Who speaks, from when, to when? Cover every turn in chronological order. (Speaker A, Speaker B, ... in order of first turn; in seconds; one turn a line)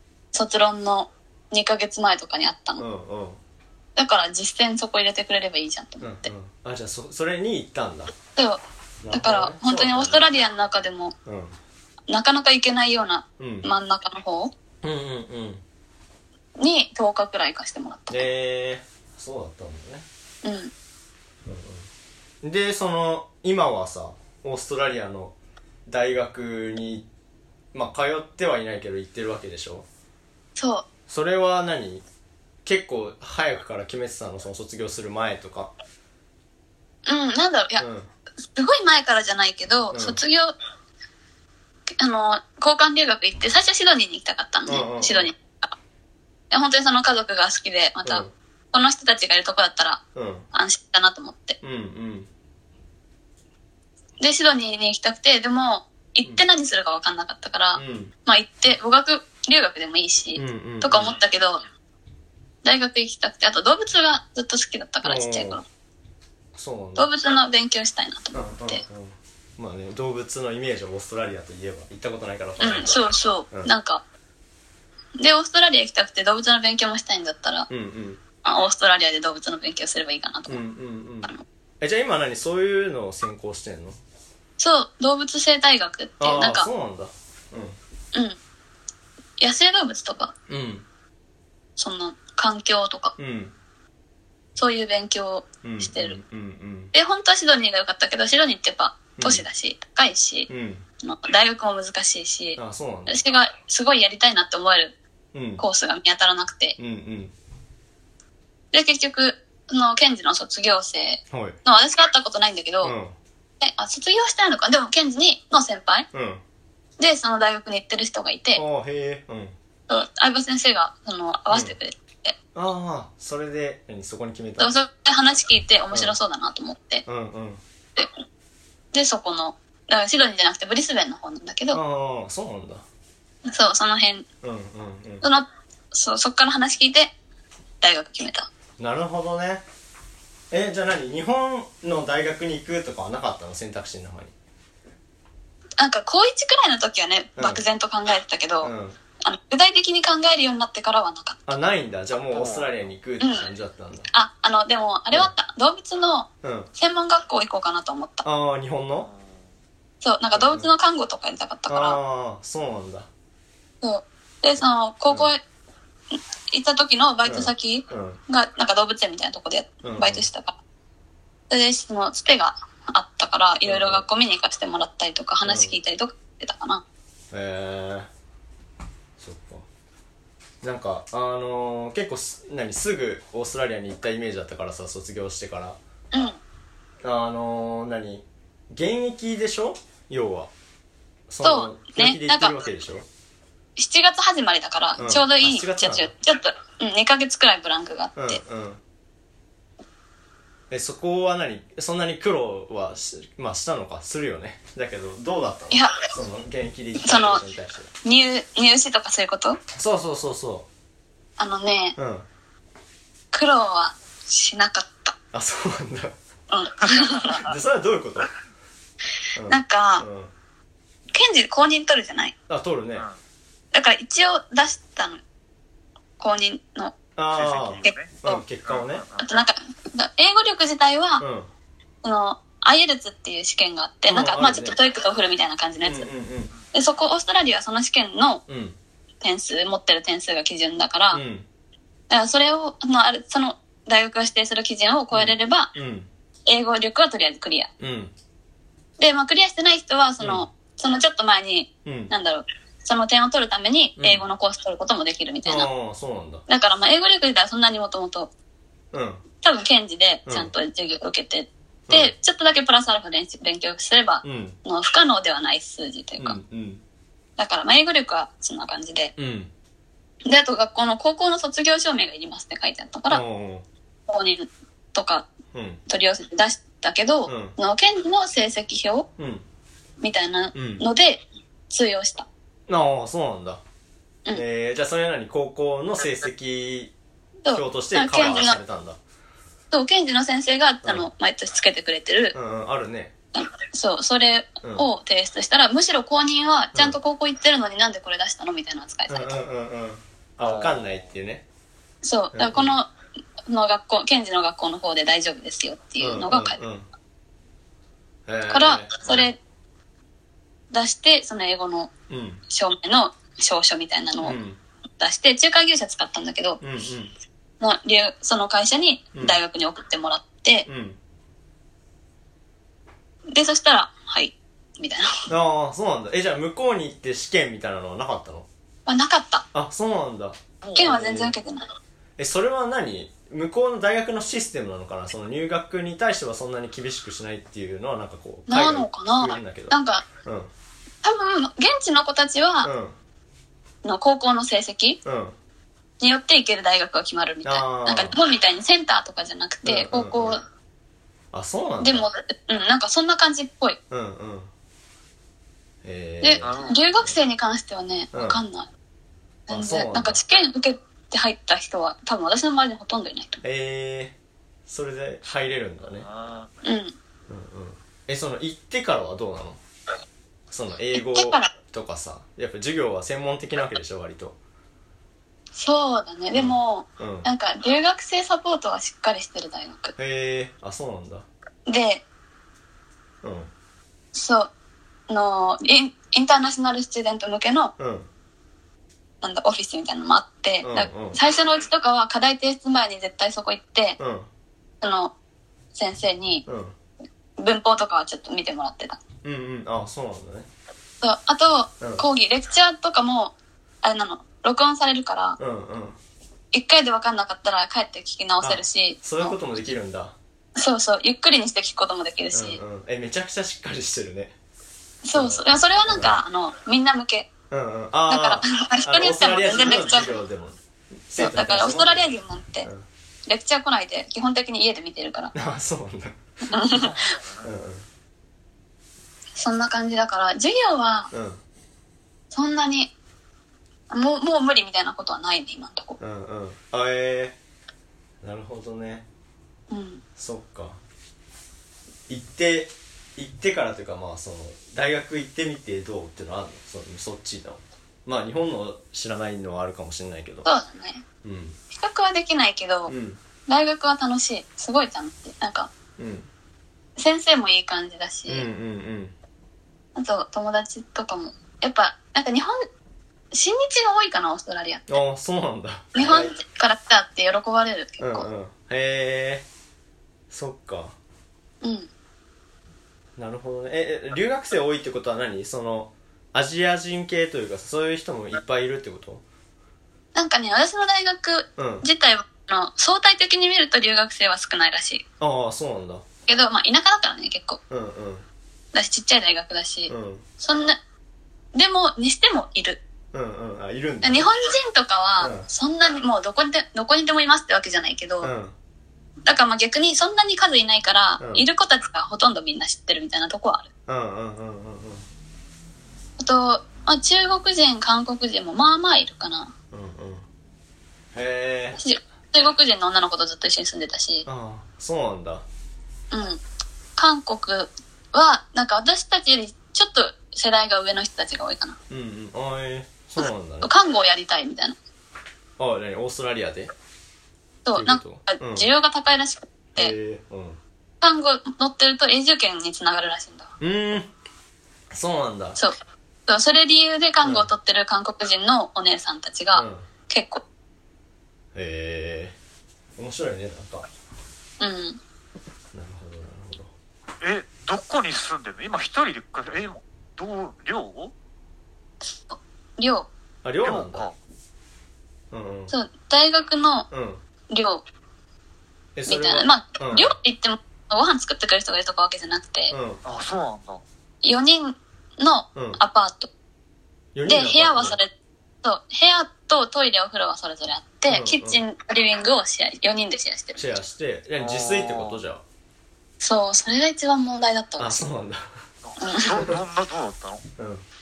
Speaker A: 0.3-2.8
Speaker B: 2.8-3.4
Speaker A: 4.0-6.3
Speaker B: 6.0-8.1
Speaker A: 8.3-11.1
Speaker B: 9.0-10.2
Speaker B: 11.2-11.6
Speaker A: 12.1-14.5
Speaker B: 13.4-13.7
Speaker B: 14.8-15.6
Speaker A: 16.6-18.3
Speaker B: 18.1-20.0
Speaker A: 20.4-20.7
Speaker B: 21.4-21.9
Speaker B: 22.4-25.3
Speaker B: 25.9-27.1
Speaker B: 27.7-29.9
Speaker A: 30.6-30.9
Speaker B: 31.1-32.0
Speaker B: 32.6-35.7
Speaker A: 37.0-37.8
Speaker B: 37.8-38.1
Speaker A: 38.4-40.5
Speaker B: 39.9-40.2
Speaker A: 42.0-45.7
Speaker B: 44.6-45.3
Speaker A: 46.5-50.0
Speaker B: 48.0-48.3
Speaker B: 50.1-50.5
Speaker A: 50.5-51.6
Speaker B: 51.6-52.3
Speaker A: 54.2-61.6
Speaker B: 57.8-58.1
Speaker B: 60.4-61.1
Speaker A: 62.6-65.6
Speaker B: 65.0-65.6
Speaker B: 66.5-67.1
Speaker A: 67.0-68.8
Speaker B: 68.3-73.0
Speaker A: 72.6-74.0
Speaker A: 75.2-77.7
Speaker B: 77.7-78.2
Speaker A: 78.4-80.6
Speaker B: 80.5-84.0
Speaker A: 84.6-86.7
Speaker B: 86.2-87.8
Speaker A: 89.4-90.3
Speaker B: 90.5-90.8
Speaker A: 91.8-93.1
Speaker B: 93.2-93.5
Speaker A: 94.5-96.2
Speaker B: 95.6-96.9
Speaker A: 96.9-100.5
Speaker B: 99.2-99.4
Speaker B: 100.5-100.8
Speaker A: 101.0-105.0
Speaker B: 102.6-103.2
Speaker B: 105.3-105.6
Speaker A: 105.6-106.8
Speaker B: 106.8-107.3
Speaker A: 108.7-112.9
Speaker B: 111.3-111.6
Speaker B: 112.8-113.1
Speaker A: 113.6-116.1
Speaker B: 116.1-116.4
Speaker A: 117.0-118.6
Speaker B: 118.5-119.5
Speaker A: 119.9-122.3
Speaker B: 121.5-121.7
Speaker B: 122.5-124.7
Speaker A: 124.6-127.0
Speaker B: 125.9-126.2
Speaker B: 127.0-127.6
Speaker A: 128.9-131.8
Speaker B: 131.7-132.8
Speaker A: 133.4-134.2
Speaker B: 134.4-135.2
Speaker A: 135.2-137.1
Speaker A: 137.8-138.5
Speaker B: 138.8-139.6
Speaker B: 140.5-144.3
Speaker A: 145.8-151.4
Speaker B: 147.4-147.6
Speaker B: 148.6-149.0
Speaker B: 151.5-154.1
Speaker C: 152.3-152.7
Speaker A: 153.2-153.5
Speaker A: 154.1-158.2
Speaker B: 156.4-156.7
Speaker B: 158.2-159.1
Speaker C: 159.0-159.4
Speaker A: 160.0-162.0
Speaker B: 160.3-160.7
Speaker B: 161.7-163.1
Speaker A: 163.8-165.4
Speaker A: 166.5-170.6
Speaker B: 167.2-168.2
Speaker B: 169.8-170.3
Speaker A: 171.5-176.8
Speaker B: 173.7-174.0
Speaker B: 175.4-175.7
Speaker B: 177.3-178.1
Speaker B: 179.2-179.7
Speaker B: 180.6-185.8
Speaker A: 186.1-186.4
Speaker B: 187.0-190.5
Speaker B: 191.3-193.1
Speaker A: 191.4-192.6
Speaker A: 193.8-198.4
Speaker B: 195.0-196.1
Speaker B: 198.2-198.8
Speaker B: 200.7-207.9
Speaker A: 205.7-206.1
Speaker A: 207.0-207.4
Speaker A: 208.0-209.6
Speaker B: 209.7-210.7
Speaker A: 211.4-211.9
Speaker B: 211.9-212.3
Speaker A: 213.3-215.1
Speaker B: 215.3-216.1
Speaker A: 216.5-217.4
Speaker B: 217.3-218.3
Speaker B: 219.3-220.3
Speaker A: 219.4-220.0
Speaker A: 221.1-222.3
Speaker B: 222.5-223.1
Speaker A: 223.7-225.2
Speaker A: 226.2-226.9
Speaker B: 227.2-229.0
Speaker C: 227.3-228.1
Speaker A: 227.8-228.4
Speaker C: 228.7-229.2
Speaker A: 229.2-231.2
Speaker B: 231.2-231.5
Speaker A: 232.0-236.1
Speaker B: 234.1-234.7
Speaker B: 235.8-236.5
Speaker A: 236.7-238.4
Speaker B: 238.5-238.8
Speaker A: 239.2-241.2
Speaker B: 241.1-241.5
Speaker A: 242.1-245.7
Speaker B: 245.1-246.1
Speaker A: 246.4-247.7
Speaker B: 247.8-248.1
Speaker A: 249.0-255.7
Speaker B: 250.2-250.4
Speaker B: 251.8-252.1
Speaker B: 254.0-254.2
Speaker B: 255.4-256.4
Speaker A: 256.5-258.3
Speaker B: 258.9-259.2
Speaker A: 259.4-266.4
Speaker B: 260.3-260.5
Speaker B: 261.9-262.1
Speaker B: 264.2-264.6
Speaker B: 266.2-266.8
Speaker A: 267.4-269.1
Speaker B: 269.2-269.5
Speaker A: 270.2-273.2
Speaker B: 273.1-273.6
Speaker A: 274.1-275.3
Speaker B: 275.5-275.8
Speaker A: 275.9-279.1
Speaker B: 277.3-277.5
Speaker B: 279.2-279.4
Speaker A: 280.0-282.3
Speaker B: 280.5-280.9
Speaker B: 282.7-283.6
Speaker B: 284.3-286.9
Speaker A: 287.4-288.6
Speaker B: 287.5-289.0
Speaker A: 289.7-292.3
Speaker B: 292.3-293.1
Speaker A: 293.3-299.4
Speaker B: 299.1-301.4
Speaker C: 300.4-301.0
Speaker A: 302.0-302.9
Speaker B: 302.3-302.7
Speaker A: 303.5-306.6
Speaker B: 306.0-306.9
Speaker B: 308.3-309.3
Speaker A: 308.5-309.4
Speaker A: 310.7-311.9
Speaker B: 312.1-312.4
Speaker A: 312.5-314.4
Speaker B: 314.2-314.6
Speaker A: 315.0-316.6
Speaker B: 316.6-317.1
Speaker A: 317.6-320.7
Speaker B: 319.1-319.4
Speaker B: 320.7-321.0
Speaker A: 323.3-325.2
Speaker B: 325.3-328.5
Speaker A: 328.9-329.4
Speaker B: 329.5-331.3
Speaker C: 330.6-330.9
Speaker A: 330.7-331.7
Speaker B: 332.2-340.5
Speaker A: 338.5-340.1
Speaker A: 341.0-342.7
Speaker B: 342.6-342.9
Speaker A: 343.8-345.0
Speaker B: 345.0-345.4
Speaker A: 346.0-350.4
Speaker B: 347.4-348.1
Speaker B: 349.6-350.4
Speaker B: 351.3-352.1
Speaker A: 351.8-353.8
Speaker B: 353.9-354.5
Speaker B: 355.8-356.5
Speaker A: 356.2-358.7
Speaker C: 356.4-356.9
Speaker B: 358.1-358.4
Speaker A: 359.5-363.4
Speaker B: 359.5-360.2
Speaker B: 363.4-364.1
Speaker B: 364.7-366.1
Speaker C: 366.0-366.5
Speaker A: 366.6-366.9
Speaker B: 367.3-369.6
Speaker B: 370.5-374.4
Speaker A: 370.9-371.5
Speaker A: 375.5-379.9
Speaker B: 376.3-377.3
Speaker B: 380.0-381.2
Speaker A: 381.6-382.0
Speaker B: 383.2-383.5
Speaker A: 384.1-384.5
Speaker A: 385.1-387.7
Speaker B: 387.8-388.1
Speaker A: 389.2-394.0
Speaker B: 390.6-391.2
Speaker B: 394.0-394.3
Speaker A: 394.8-395.1
Speaker A: 395.7-396.4
Speaker B: 396.4-396.7
Speaker A: 397.4-399.0
Speaker B: 399.2-400.5
Speaker A: 401.0-405.4
Speaker B: 405.4-406.0
Speaker A: 406.5-409.4
Speaker B: 408.4-410.1
Speaker A: 410.6-412.6
Speaker B: 412.3-414.3
Speaker A: 415.0-417.3
Speaker B: 415.1-416.2
Speaker B: 417.5-422.1
Speaker A: 418.1-420.2
Speaker A: 421.2-422.7
Speaker A: 423.3-425.3
Speaker B: 425.3-426.2
Speaker A: 426.5-427.0
Speaker C: 426.7-427.5
Speaker B: 427.4-427.9
Speaker A: 429.4-431.1
Speaker B: 431.1-431.4
Speaker A: 432.3-432.9
Speaker A: 433.9-436.0
Speaker B: 436.0-437.4
Speaker B: 438.2-439.1
Speaker A: 439.7-440.0
Speaker B: 440.2-440.8
Speaker B: 442.1-450.5
Speaker A: 450.4-451.0
Speaker B: 451.2-451.6
Speaker A: 451.7-452.9
Speaker B: 452.9-453.2
Speaker A: 453.5-455.7
Speaker B: 456.0-456.3
Speaker A: 457.0-458.5
Speaker B: 458.3-459.1
Speaker A: 459.9-462.6
Speaker A: 463.3-465.0
Speaker B: 464.9-466.3
Speaker A: 465.9-468.3
Speaker B: 468.0-469.4
Speaker B: 470.3-470.9
Speaker A: 471.6-471.9
Speaker B: 473.2-479.2
Speaker A: 480.1-485.0
Speaker B: 481.6-481.9
Speaker B: 485.2-486.0
Speaker A: 486.3-487.6
Speaker B: 487.7-488.2
Speaker A: 488.7-490.8
Speaker B: 489.9-490.2
Speaker A: 491.5-492.8
Speaker B: 493.1-494.3
Speaker A: 494.0-498.3
Speaker B: 495.2-495.4
Speaker B: 498.2-498.5
Speaker A: 499.2-503.7
Speaker B: 501.2-501.4
Speaker B: 503.9-505.0
Speaker A: 506.2-509.5
Speaker B: 509.7-510.2
Speaker B: 511.1-511.8
Speaker A: 511.8-514.3
Speaker B: 514.2-515.4
Speaker A: 516.1-516.4
Speaker A: 517.0-521.8
Speaker B: 521.9-523.7
Speaker A: 523.6-524.8
Speaker B: 525.6-526.7
Speaker A: 527.6-529.9
Speaker B: 527.7-528.7
Speaker B: 529.8-530.6
Speaker A: 531.0-533.5
Speaker B: 533.6-534.1
Speaker B: 534.9-535.6
Speaker A: 536.3-540.4
Speaker B: 537.2-537.5
Speaker B: 539.5-539.8
Speaker B: 541.5-542.4
Speaker B: 543.0-543.9
Speaker A: 544.6-545.0
Speaker B: 545.7-546.7
Speaker C: 547.2-551.1
Speaker A: 552.0-553.1
Speaker B: 553.4-554.0
Speaker C: 553.6-554.1
Speaker B: 555.3-555.7
Speaker A: 555.7-556.9
Speaker B: 556.9-557.2
Speaker A: 557.5-557.8
Speaker B: 559.0-560.1
Speaker A: 559.1-562.7
Speaker B: 562.7-563.0
Speaker C: 563.0-563.8
Speaker A: 564.2-566.3
Speaker B: 565.5-565.8
Speaker B: 567.1-568.0
Speaker A: 567.2-568.1
Speaker A: 568.6-573.7
Speaker B: 571.1-571.6
Speaker B: 573.5-575.4
Speaker C: 574.4-575.2
Speaker A: 576.2-578.0
Speaker B: 577.8-578.5
Speaker C: 578.8-580.4
Speaker A: 579.0-579.4
Speaker B: 580.6-580.8